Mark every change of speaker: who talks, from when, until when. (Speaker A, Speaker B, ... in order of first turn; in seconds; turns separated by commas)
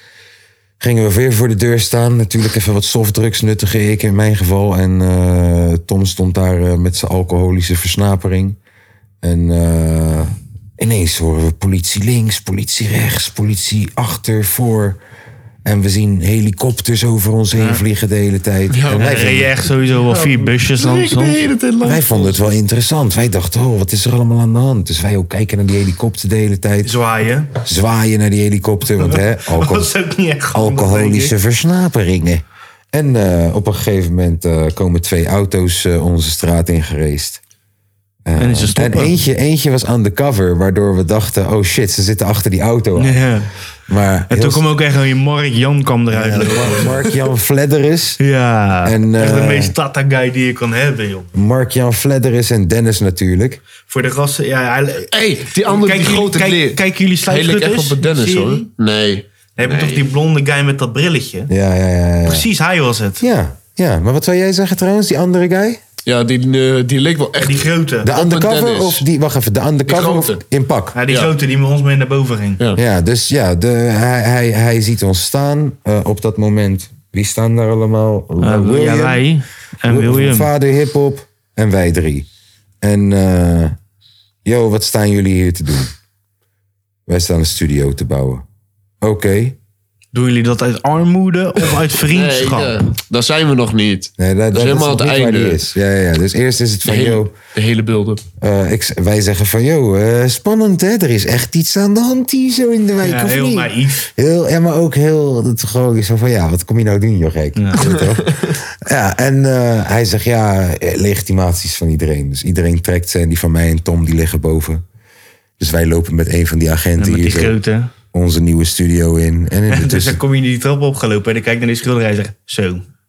Speaker A: 0.8-8.6, Speaker A: 9.2-15.0, Speaker A: 15.7-19.5, Speaker B: 18.7-22.4, Speaker C: 19.0-21.4, Speaker A: 21.8-26.9, Speaker C: 26.8-27.5, Speaker A: 27.6-29.9, Speaker C: 29.0-31.3, Speaker A: 30.5-37.4, Speaker A: 38.2-43.4, Speaker C: 38.4-39.2, Speaker C: 43.0-43.5, Speaker A: 43.9-44.7, Speaker C: 44.3-46.9, Speaker A: 46.1-48.2, Speaker C: 48.2-51.3, Speaker A: 48.8-49.7, Speaker A: 51.3-53.6, Speaker C: 53.9-55.1, Speaker B: 55.1-60.0, Speaker C: 55.6-58.7, Speaker C: 59.6-61.5, Speaker A: 61.5-62.5, Speaker C: 62.3-63.2, Speaker A: 63.2-65.8, Speaker B: 66.1-69.0, Speaker C: 67.4-68.1, Speaker A: 68.0-71.0, Speaker B: 69.9-70.4, Speaker C: 71.0-72.6, Speaker A: 72.8-79.2, Speaker C: 78.4-80.5, Speaker A: 79.8-82.3, Speaker A: 82.8-83.7, Speaker A: 84.5-85.9, Speaker A: 87.1-88.5, Speaker A: 89.0-89.6, Speaker C: 90.1-92.8, Speaker B: 92.0-95.6, Speaker A: 94.2-97.3, Speaker B: 96.8-98.2, Speaker A: 98.4-114.8, Speaker C: 103.0-104.1, Speaker C: 107.6-107.8, Speaker B: 107.8-108.5, Speaker A: 115.6-117.6, Speaker C: 117.0-117.9, Speaker A: 118.1-120.2, Speaker C: 119.7-122.8